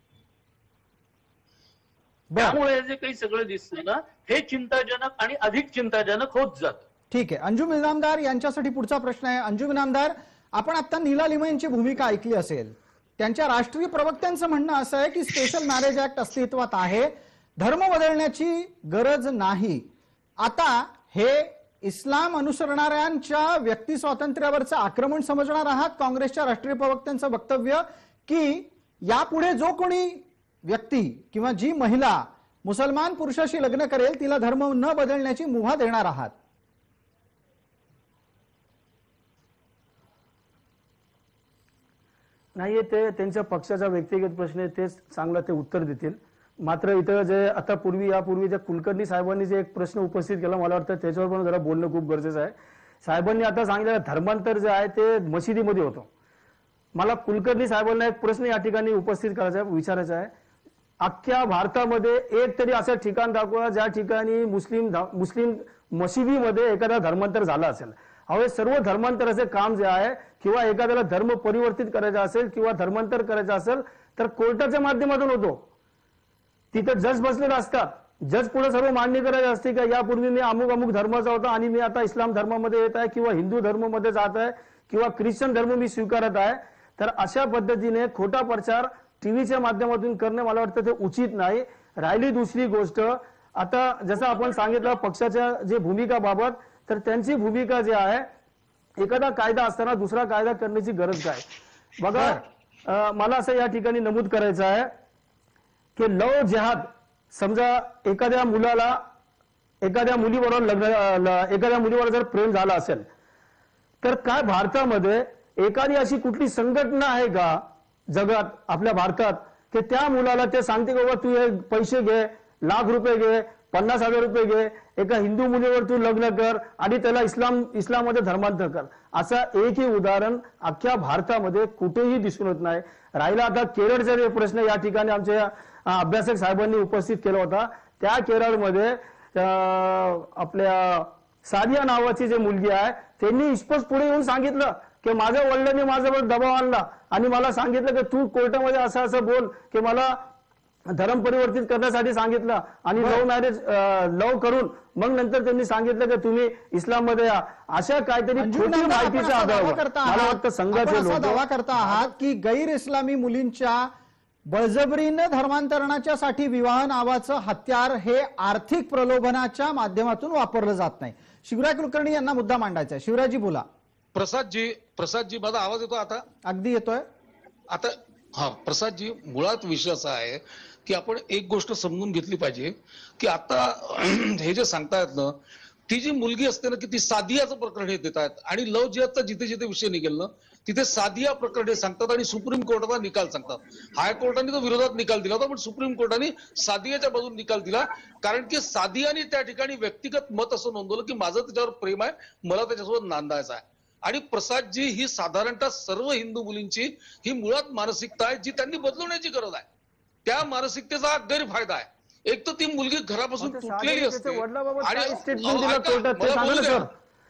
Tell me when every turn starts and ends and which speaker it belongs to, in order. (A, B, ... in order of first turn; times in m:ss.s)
0:02.3-0:02.6 A
0:02.4-0:06.8 B
0:07.1-0:19.9 A
0:20.4-0:36.3 A
0:42.6-0:56.1 C
0:56.9-1:00.3 C
1:01.0-1:15.6 C
1:16.7-1:38.3 C
1:39.0-1:41.4 C
1:42.0-1:44.9 C
1:42.1-1:42.4 A
1:46.0-1:49.0 C
1:49.8-1:53.1 C
1:54.0-2:30.3 C
2:30.9-2:42.0 C
2:33.0-2:33.2 A
2:38.4-2:43.9 A
2:44.5-2:53.6 A
2:54.1-2:56.2 D
2:56.4-2:57.0 A
2:57.7-3:05.3 D
3:05.9-3:29.6 D
3:30.2-3:36.9 D
3:33.4-3:36.9 C